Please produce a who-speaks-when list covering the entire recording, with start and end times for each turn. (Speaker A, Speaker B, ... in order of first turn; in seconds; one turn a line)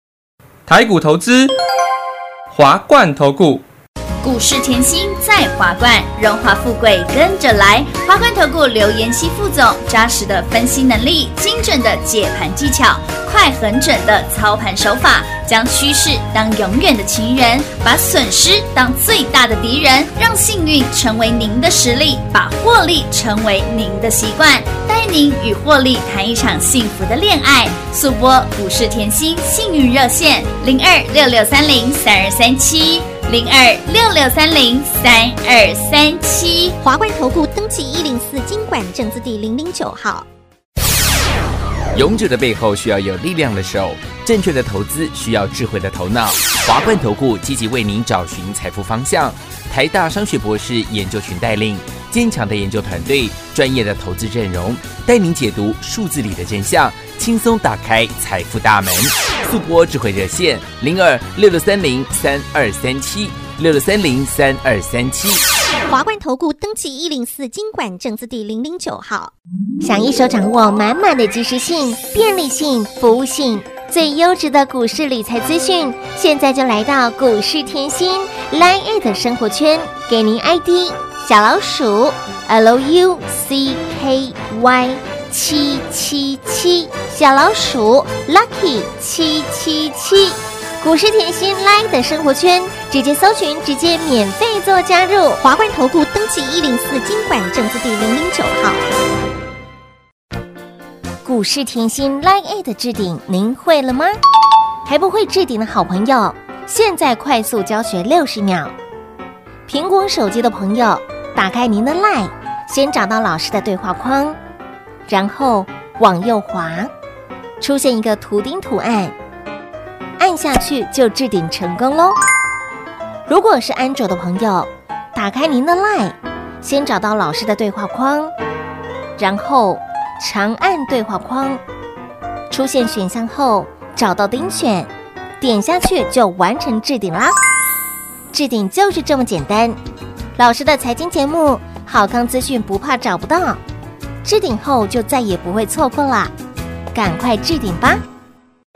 Speaker A: 0.7-1.5
Speaker A: 2.5-3.6
Speaker B: 4.2-36.8
Speaker C: 36.8-40.2
Speaker D: 41.9-65.4
Speaker C: 65.9-69.3
Speaker E: 69.8-95.4
Speaker C: 95.4-98.8
Speaker E: 101.2-104.2
Speaker E: 104.8-108.7
Speaker E: 109.7-114.4
Speaker E: 115.1-116.9
Speaker E: 117.6-119.1
Speaker E: 120.2-122.2
Speaker E: 123.3-128.3
Speaker E: 129.2-131.6
Speaker E: 132.5-137.3
Speaker E: 138.3-139.8
Speaker E: 140.3-143.6
Speaker E: 144.2-146.3
Speaker E: 146.9-148.0